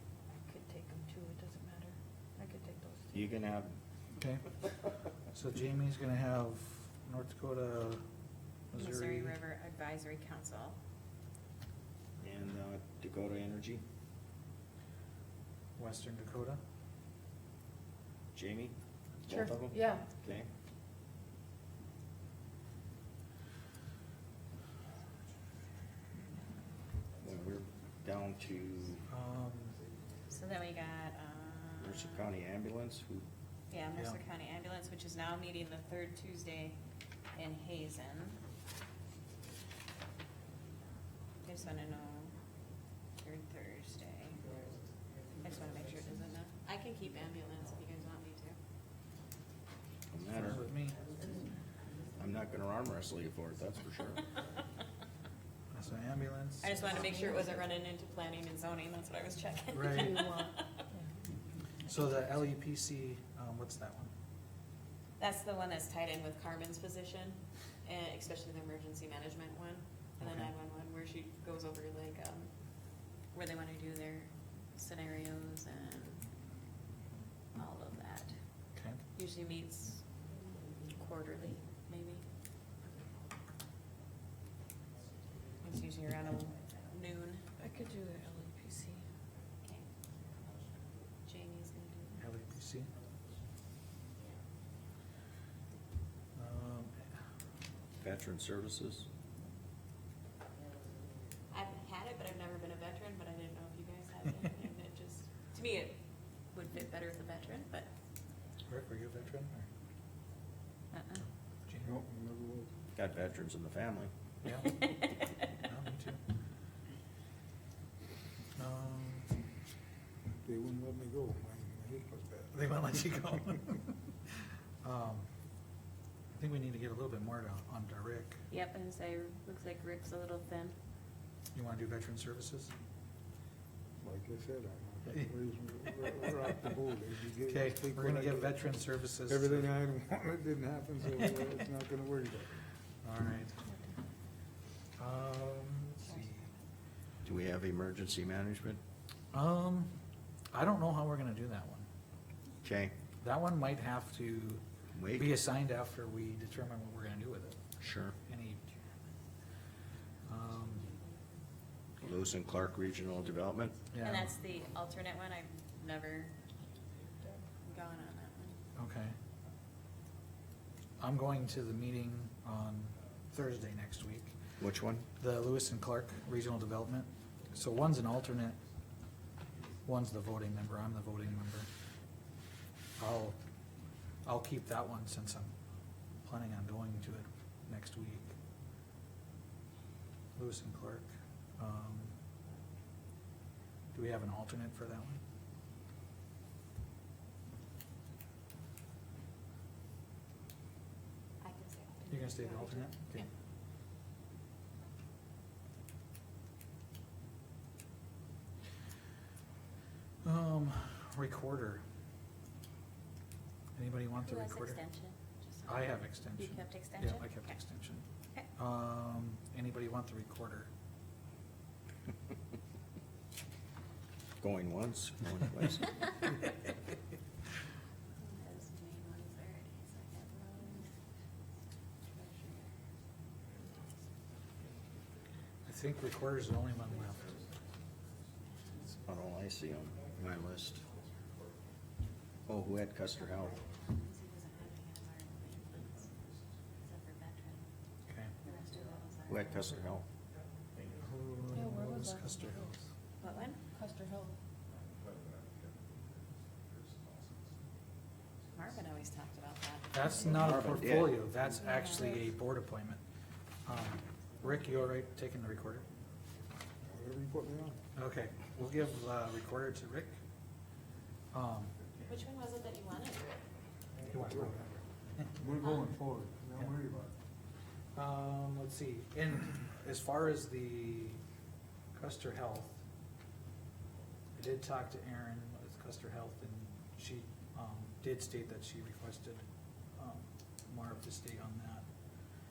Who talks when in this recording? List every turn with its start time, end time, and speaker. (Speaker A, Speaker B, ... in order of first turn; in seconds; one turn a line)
Speaker A: 0.3-3.2
Speaker B: 3.1-3.7
Speaker C: 4.2-4.5
Speaker C: 5.3-8.0
Speaker C: 8.7-9.4
Speaker D: 8.7-10.8
Speaker B: 12.2-13.8
Speaker C: 15.8-16.6
Speaker B: 18.3-18.7
Speaker B: 19.3-20.5
Speaker A: 19.3-20.0
Speaker B: 27.2-29.0
Speaker C: 29.1-29.8
Speaker D: 30.3-32.3
Speaker B: 31.8-33.2
Speaker D: 33.7-36.8
Speaker D: 37.3-38.4
Speaker D: 41.4-42.3
Speaker D: 43.2-44.5
Speaker D: 45.4-48.6
Speaker B: 50.1-50.6
Speaker C: 50.3-51.0
Speaker B: 52.2-54.3
Speaker C: 55.7-56.8
Speaker D: 56.6-60.8
Speaker C: 59.7-60.2
Speaker A: 59.9-60.6
Speaker C: 61.9-64.1
Speaker D: 65.2-72.5
Speaker C: 70.2-70.5
Speaker D: 73.3-76.2
Speaker D: 77.5-78.3
Speaker C: 78.7-79.0
Speaker D: 79.2-80.0
Speaker D: 80.9-82.2
Speaker D: 85.6-87.5
Speaker A: 87.5-89.0
Speaker D: 89.6-89.9
Speaker D: 91.3-92.3
Speaker C: 92.2-92.9
Speaker C: 96.3-97.1
Speaker B: 98.0-99.1
Speaker D: 101.5-106.0
Speaker D: 106.5-107.9
Speaker C: 108.7-109.7
Speaker C: 111.7-112.0
Speaker E: 111.8-112.7
Speaker B: 112.9-114.1
Speaker C: 114.4-114.8
Speaker D: 114.7-115.3
Speaker C: 115.6-116.2
Speaker C: 118.5-119.3
Speaker E: 120.4-122.6
Speaker C: 122.5-123.9
Speaker C: 124.8-125.3
Speaker C: 126.3-128.4
Speaker D: 128.5-130.7
Speaker C: 131.5-132.7
Speaker E: 134.0-138.7
Speaker C: 137.5-139.7
Speaker E: 139.3-142.5
Speaker C: 141.1-141.4
Speaker C: 143.0-143.6
Speaker A: 143.6-143.9
Speaker C: 145.0-146.5
Speaker D: 146.0-146.5
Speaker B: 147.2-148.8
Speaker C: 149.3-149.9
Speaker C: 150.5-151.9
Speaker B: 152.6-152.9
Speaker C: 153.2-157.6
Speaker B: 154.9-155.3
Speaker B: 157.8-158.1
Speaker C: 158.2-158.6
Speaker C: 160.3-160.9
Speaker B: 162.0-163.7
Speaker C: 163.9-164.3
Speaker D: 164.0-166.3
Speaker D: 167.6-168.6
Speaker C: 168.8-169.1
Speaker C: 171.0-174.3
Speaker B: 174.6-175.1
Speaker C: 175.2-178.6
Speaker C: 179.8-181.7
Speaker C: 183.0-183.3
Speaker C: 184.2-185.5
Speaker C: 186.2-188.3
Speaker C: 190.3-192.2
Speaker C: 193.9-195.2
Speaker D: 201.4-203.2
Speaker C: 202.1-203.2
Speaker C: 210.2-211.8
Speaker C: 213.8-214.8
Speaker D: 214.2-217.6
Speaker C: 215.7-218.0
Speaker C: 218.6-220.7
Speaker B: 224.4-226.1
Speaker D: 228.2-230.9
Speaker D: 232.1-232.8
Speaker C: 235.7-237.3
Speaker B: 239.0-240.8
Speaker B: 242.5-243.6
Speaker D: 243.1-246.1
Speaker D: 246.8-247.7
Speaker C: 248.1-248.3
Speaker D: 248.4-249.5
Speaker B: 249.2-250.0
Speaker C: 251.0-252.8
Speaker A: 251.5-252.7
Speaker D: 253.2-253.6
Speaker A: 253.7-254.3
Speaker D: 258.5-260.2
Speaker C: 259.9-263.0
Speaker B: 260.2-261.2
Speaker A: 261.6-262.1
Speaker C: 263.6-265.9
Speaker E: 266.9-267.8
Speaker C: 267.9-270.2
Speaker C: 271.3-271.8
Speaker D: 272.0-273.4
Speaker E: 274.0-274.8
Speaker C: 274.1-274.5
Speaker E: 275.4-277.1
Speaker C: 277.9-281.2
Speaker C: 281.9-282.8
Speaker C: 284.3-289.4
Speaker C: 289.9-291.9